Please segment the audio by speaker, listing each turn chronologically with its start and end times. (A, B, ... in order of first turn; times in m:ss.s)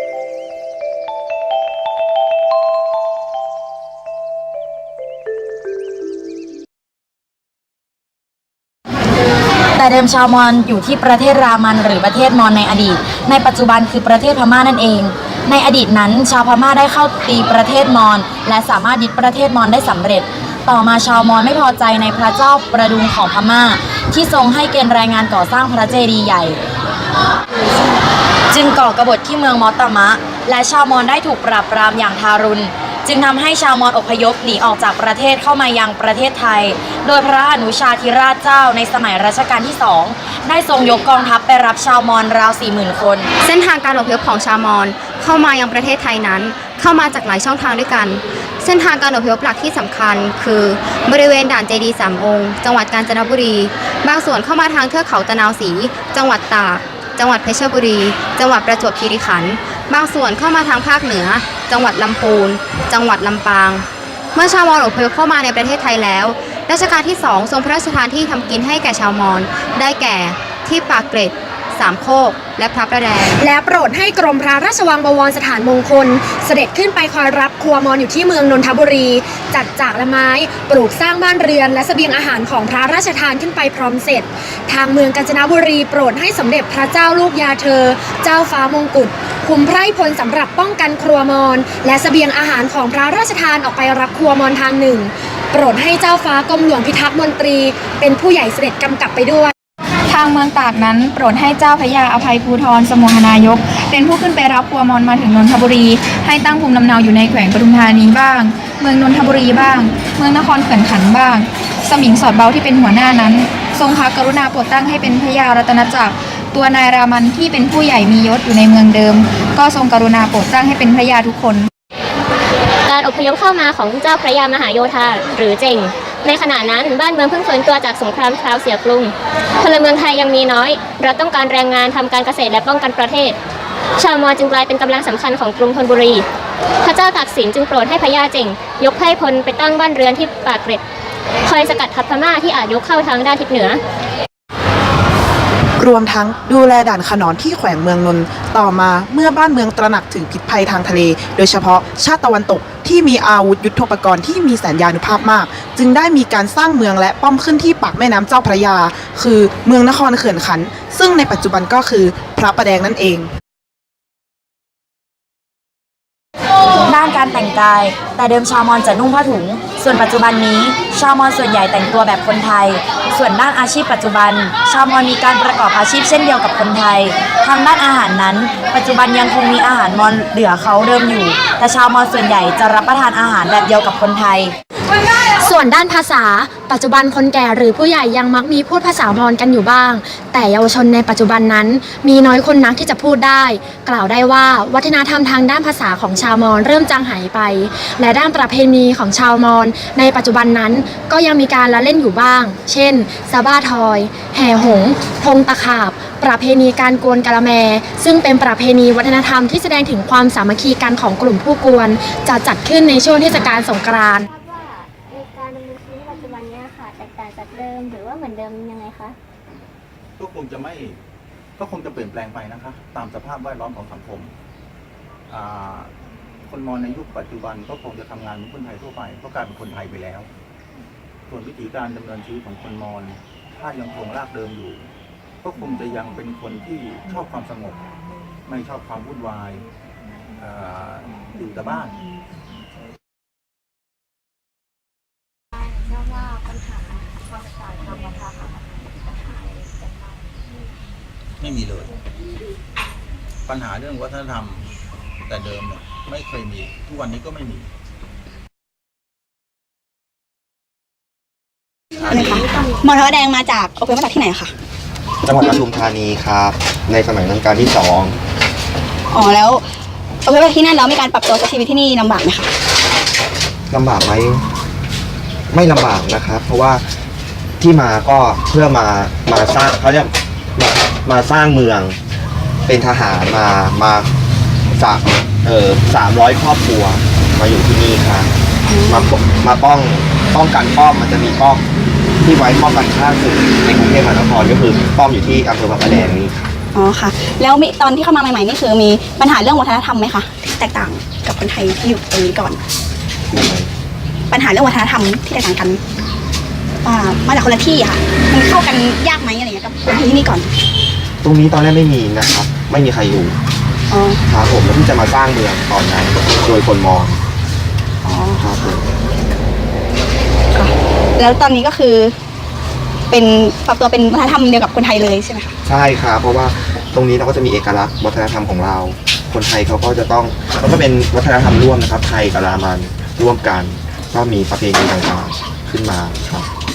0:09.8-0:26.6 A
0:28.5-0:43.3 A
0:43.4-1:13.4 B
1:13.4-1:39.5 C
1:40.1-2:01.7 D
2:02.9-2:13.4 E
2:14.0-2:16.2 E
2:16.8-2:20.8 E
2:21.5-2:23.8 E
2:25.8-2:43.3 F
2:46.9-3:04.5 A
3:05.4-3:34.3 C
3:34.3-3:39.2 G
3:40.2-3:41.0 H
3:41.6-3:44.3 H
3:45.3-3:45.9 H
3:46.5-3:50.3 H
3:51.3-3:54.9 H
3:55.4-3:57.8 H
3:58.5-3:59.6 H
4:00.4-4:02.0 H
4:05.9-4:07.1 G
4:07.7-4:09.9 G
4:11.4-4:11.9 H
4:13.5-4:14.7 H
4:15.3-4:17.7 H
4:22.0-4:24.5 I
4:25.2-4:28.2 J
4:29.1-4:29.6 I
4:30.2-4:32.5 I
4:33.7-4:34.4 J
4:35.5-4:36.9 J
4:37.6-4:42.0 J
4:42.7-4:44.1 J
4:44.7-4:48.3 J
4:48.6-4:49.1 I
4:48.9-4:51.6 J
4:52.2-4:56.5 J
4:56.8-5:02.6 I
5:03.3-5:03.7 J
5:04.3-5:05.8 I
5:06.8-5:10.5 I
5:11.2-5:13.4 J
5:13.9-5:14.2 I
5:14.3-5:17.2 J
5:18.0-5:18.6 I
5:18.4-5:18.8 J
5:20.5-5:22.2 I
5:23.1-5:25.5 I
5:25.7-5:36.5 J